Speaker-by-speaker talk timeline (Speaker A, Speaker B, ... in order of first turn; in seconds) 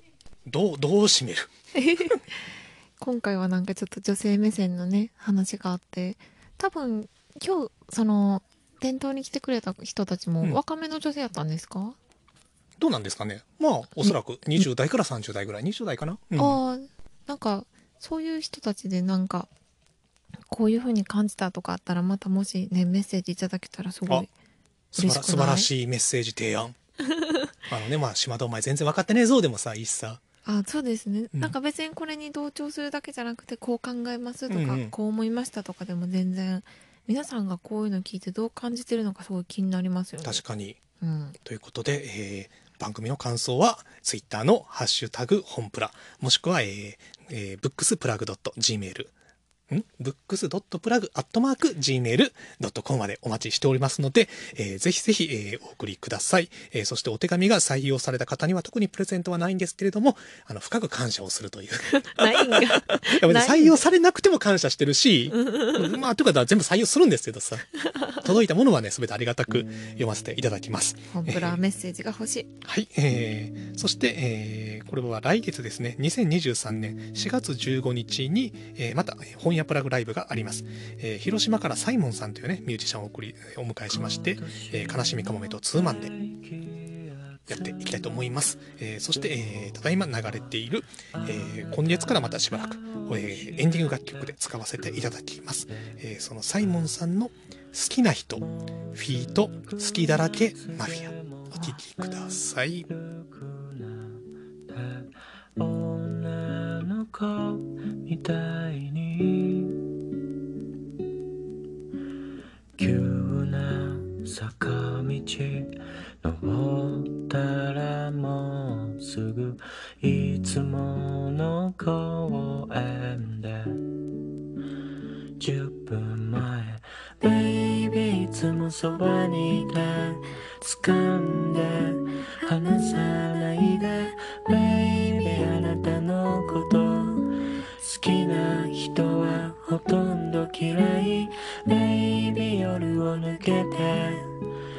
Speaker A: 0.5-1.5, 12.8-16.6, 24.9-26.8, 27.7-30.2, 34.5-34.9, 40.2-40.8, 41.4-49.1, 49.7-71.6, 72.6-86.2, 87.5-102.9
Speaker B: 1.7-12.0, 14.0-14.6, 16.4-19.5, 20.5-24.3, 25.0-25.7, 27.2-27.5, 30.4-40.4, 41.0-41.4, 61.9-63.9, 65.5-65.9, 71.1-72.5
Speaker C: 83.9-87.9, 91.2-94.2, 98.9-109.8, 112.8-123.8, 125.4-144.3